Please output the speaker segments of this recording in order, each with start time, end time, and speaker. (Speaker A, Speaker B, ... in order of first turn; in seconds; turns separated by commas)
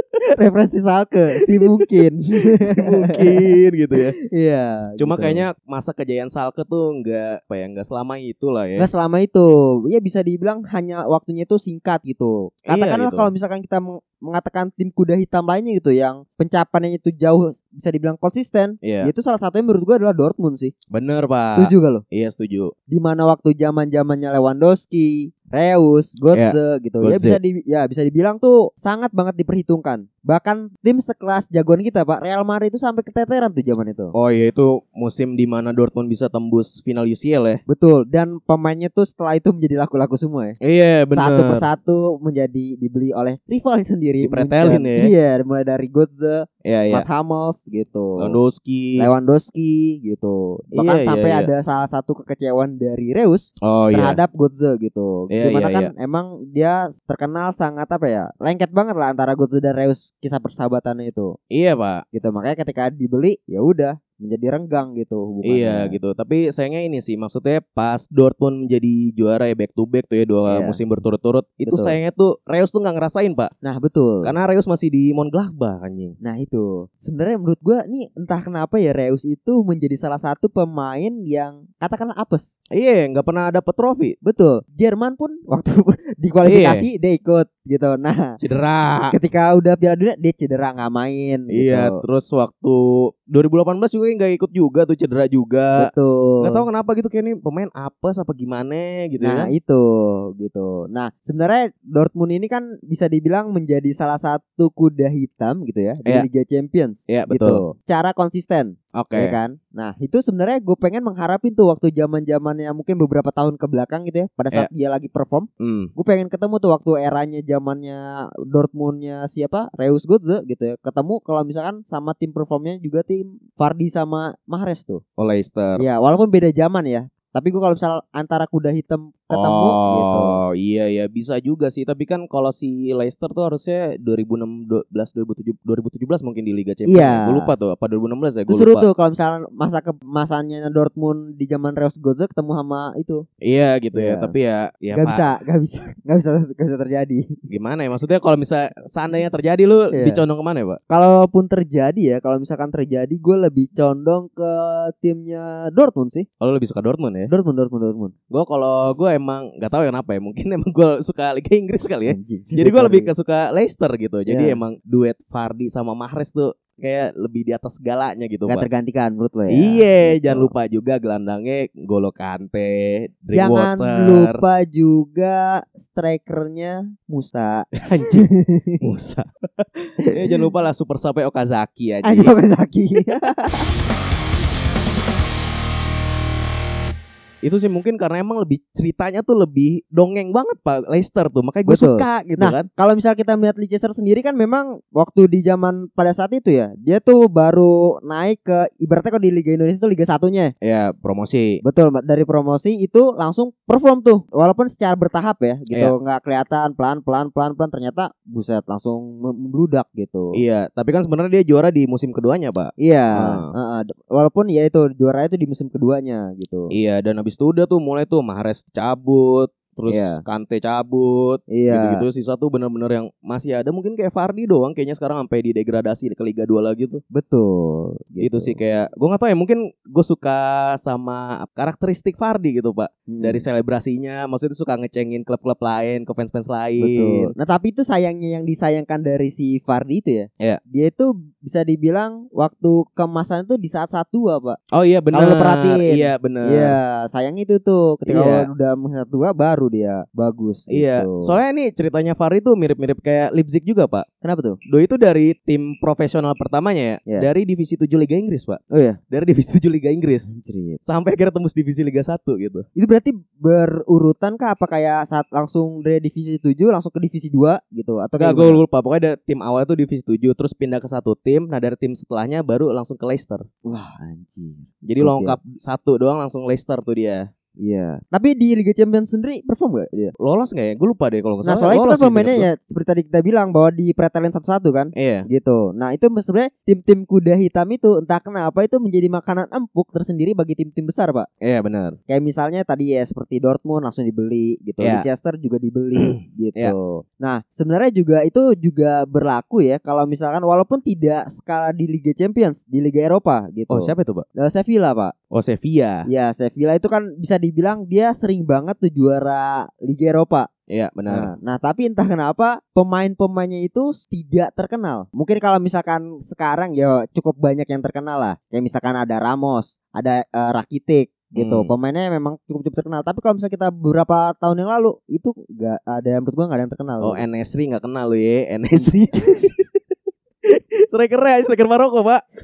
Speaker A: 0.3-3.5, Speaker B: 1.5-1.8, Speaker B: 2.6-4.2, Speaker A: 4.2-5.5, Speaker B: 5.0-8.9, Speaker A: 8.8-20.7, Speaker B: 12.7-13.3, Speaker B: 18.8-19.1, Speaker B: 20.9-22.7, Speaker A: 21.6-22.0, Speaker A: 22.9-34.1, Speaker B: 26.3-27.4, Speaker B: 34.1-37.6, Speaker A: 37.7-40.6, Speaker B: 40.6-41.6, Speaker A: 41.1-48.4, Speaker B: 44.2-45.1, Speaker B: 46.6-47.1, Speaker B: 48.2-49.1, Speaker A: 49.0-61.4, Speaker B: 50.7-51.5, Speaker B: 53.6-54.2, Speaker B: 55.3-55.9, Speaker B: 61.5-62.0, Speaker A: 62.1-66.0, Speaker B: 65.4-73.5, Speaker A: 70.5-70.8, Speaker A: 71.7-72.0, Speaker A: 73.6-74.3, Speaker B: 74.2-76.2, Speaker A: 76.2-82.5, Speaker B: 82.7-84.2, Speaker A: 84.2-88.4, Speaker B: 86.4-86.9, Speaker B: 88.4-89.1, Speaker A: 89.1-92.0, Speaker B: 91.5-99.5, Speaker A: 95.8-96.7, Speaker A: 99.2-125.0, Speaker B: 107.1-107.6, Speaker B: 108.9-109.4, Speaker B: 115.6-115.9, Speaker B: 125.2-125.8, Speaker A: 125.8-130.4, Speaker B: 129.3-138.8, Speaker A: 136.9-137.5, Speaker A: 138.5-143.2, Speaker B: 143.4-145.2, Speaker A: 143.9-144.3, Speaker A: 144.9-147.3, Speaker B: 147.5-150.8, Speaker A: 149.9-150.2, Speaker A: 150.9-156.3, Speaker B: 156.4-157.3, Speaker A: 157.3-158.1, Speaker B: 158.3-168.7, Speaker A: 162.1-163.1, Speaker A: 164.3-164.6, Speaker A: 168.5-170.5, Speaker B: 169.5-174.4, Speaker A: 173.3-178.8, Speaker B: 177.8-178.3, Speaker B: 178.8-182.3, Speaker A: 180.0-180.5, Speaker A: 182.0-183.7, Speaker B: 187.4-192.7, Speaker A: 191.7-200.5, Speaker B: 200.6-201.6, Speaker A: 201.6-210.3, Speaker B: 210.3-213.5, Speaker A: 212.8-216.7, Speaker B: 216.7-227.0, Speaker A: 219.9-220.2, Speaker A: 221.5-222.0, Speaker A: 227.1-228.6, Speaker B: 228.2-237.3, Speaker A: 233.1-233.4, Speaker A: 236.8-244.6, Speaker B: 244.7-246.8, Speaker A: 245.1-251.3, Speaker B: 248.1-248.5, Speaker B: 250.7-254.1, Speaker A: 254.2-254.6, Speaker B: 254.7-258.6, Speaker A: 258.7-259.0, Speaker B: 259.1-260.3, Speaker A: 260.3-260.8, Speaker B: 260.8-262.6, Speaker A: 262.8-268.6, Speaker B: 268.2-273.4, Speaker A: 273.6-275.4, Speaker B: 274.8-277.3, Speaker A: 277.6-280.1, Speaker B: 280.2-282.5, Speaker A: 281.4-291.3, Speaker B: 284.9-285.3, Speaker B: 291.4-291.9, Speaker A: 292.1-305.1, Speaker B: 294.8-295.0, Speaker B: 296.0-296.7, Speaker B: 303.7-304.2, Speaker B: 305.3-306.1, Speaker A: 306.1-310.5, Speaker B: 310.7-311.3, Speaker A: 311.1-327.2, Speaker B: 321.3-321.7, Speaker B: 327.0-329.7, Speaker B: 330.5-332.2